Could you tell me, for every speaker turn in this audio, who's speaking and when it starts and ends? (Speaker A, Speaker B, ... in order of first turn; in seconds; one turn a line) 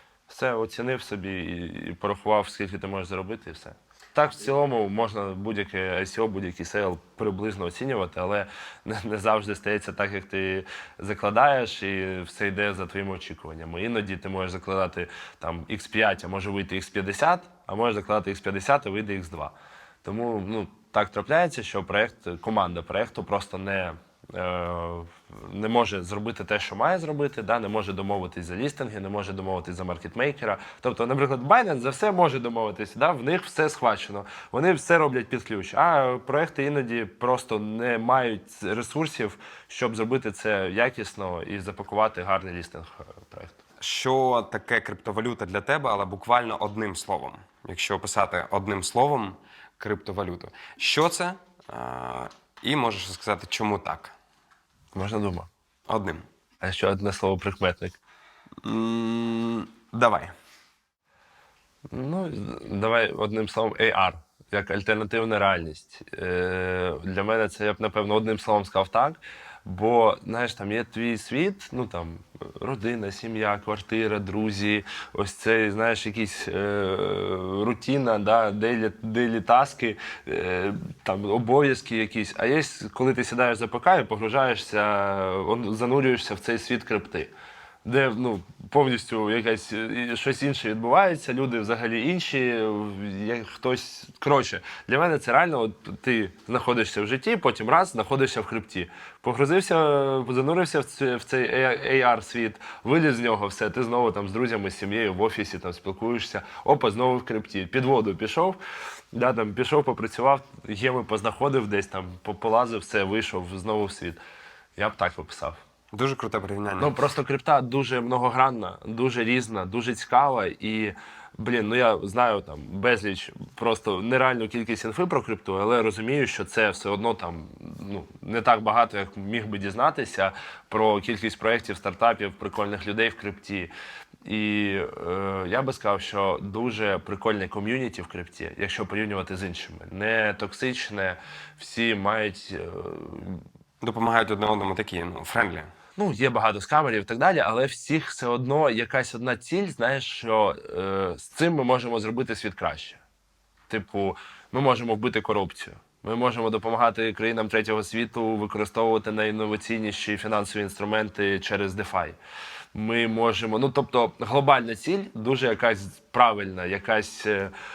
Speaker A: 0.3-43.6
Speaker B: 43.8-54.1
Speaker A: 54.9-55.5
Speaker B: 55.9-56.2
Speaker A: 56.6-58.0
Speaker B: 58.6-60.3
Speaker A: 61.9-87.3
Speaker A: 87.8-108.6
Speaker A: 109.1-114.2
Speaker A: 114.8-115.6
Speaker B: 115.9-117.0
Speaker A: 116.8-133.7
Speaker A: 134.2-143.4
Speaker B: 143.8-145.7
Speaker A: 146.0-153.0
Speaker A: 153.7-162.2
Speaker A: 162.7-167.5